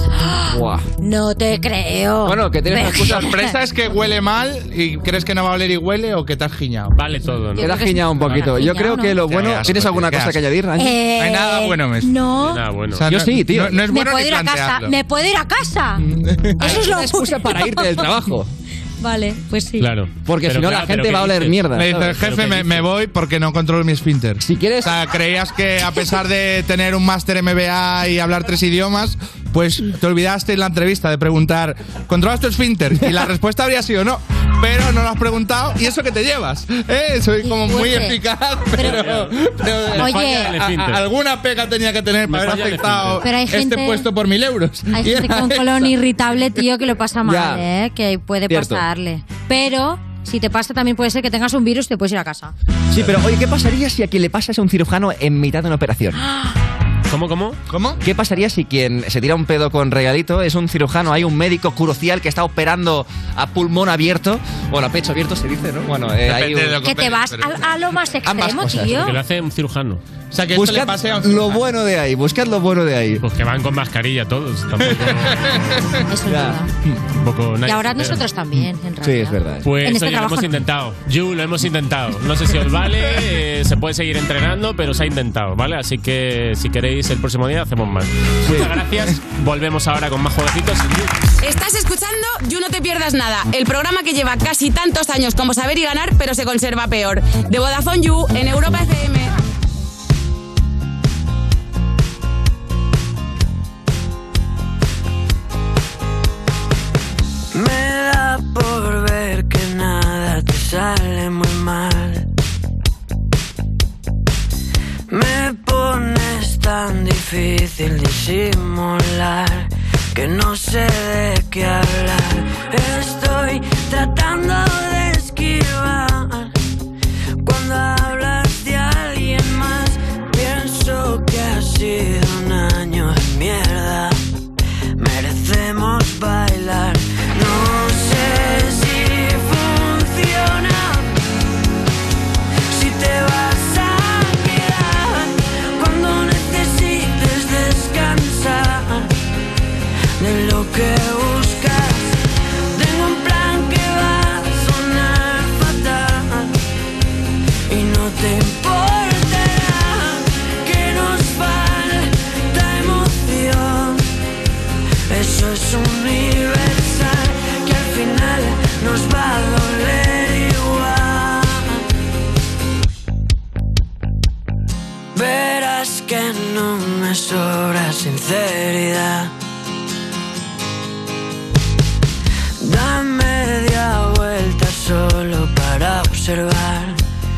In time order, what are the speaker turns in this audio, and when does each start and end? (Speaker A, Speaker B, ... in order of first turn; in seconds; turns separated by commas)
Speaker A: 0.1-3.5, Speaker B: 0.5-0.9, Speaker B: 2.2-3.3, Speaker C: 2.9-7.0, Speaker D: 7.0-8.7, Speaker A: 7.6-9.2, Speaker B: 7.6-11.0, Speaker C: 9.3-10.4, Speaker A: 10.8-12.6, Speaker C: 11.2-12.1, Speaker D: 12.4-13.1, Speaker C: 12.9-14.9, Speaker B: 13.1-13.8, Speaker A: 13.9-16.0, Speaker C: 16.0-16.8, Speaker B: 16.6-18.5, Speaker A: 16.6-18.0, Speaker A: 19.0-19.9, Speaker D: 19.8-22.9, Speaker B: 20.2-22.1, Speaker C: 21.7-45.9, Speaker B: 24.4-24.9, Speaker A: 37.4-38.2, Speaker D: 38.8-39.4, Speaker D: 39.9-41.0, Speaker A: 40.0-40.5, Speaker D: 42.3-43.3, Speaker A: 43.2-44.1, Speaker A: 44.9-52.5, Speaker B: 47.2-47.7, Speaker B: 48.5-48.9, Speaker B: 52.9-56.2, Speaker A: 56.2-56.5, Speaker D: 57.1-57.6, Speaker C: 57.7-58.0, Speaker B: 58.0-66.8, Speaker C: 66.2-67.7, Speaker A: 66.8-69.2, Speaker B: 68.2-69.1, Speaker D: 68.9-70.0, Speaker C: 70.3-71.6, Speaker B: 70.5-73.2, Speaker D: 73.2-75.5, Speaker C: 74.8-76.0, Speaker A: 76.1-76.7, Speaker B: 76.3-76.6, Speaker D: 77.2-78.2, Speaker A: 77.7-80.5, Speaker B: 79.0-79.7, Speaker D: 79.6-91.1, Speaker E: 91.4-99.3, Speaker F: 107.5-112.3, Speaker F: 115.1-126.5, Speaker F: 127.4-134.2, Speaker F: 135.0-141.2, Speaker F: 142.7-149.1, Speaker F: 150.2-156.6, Speaker F: 157.7-164.1, Speaker F: 165.1-171.8, Speaker F: 175.1-179.3, Speaker F: 182.6-187.0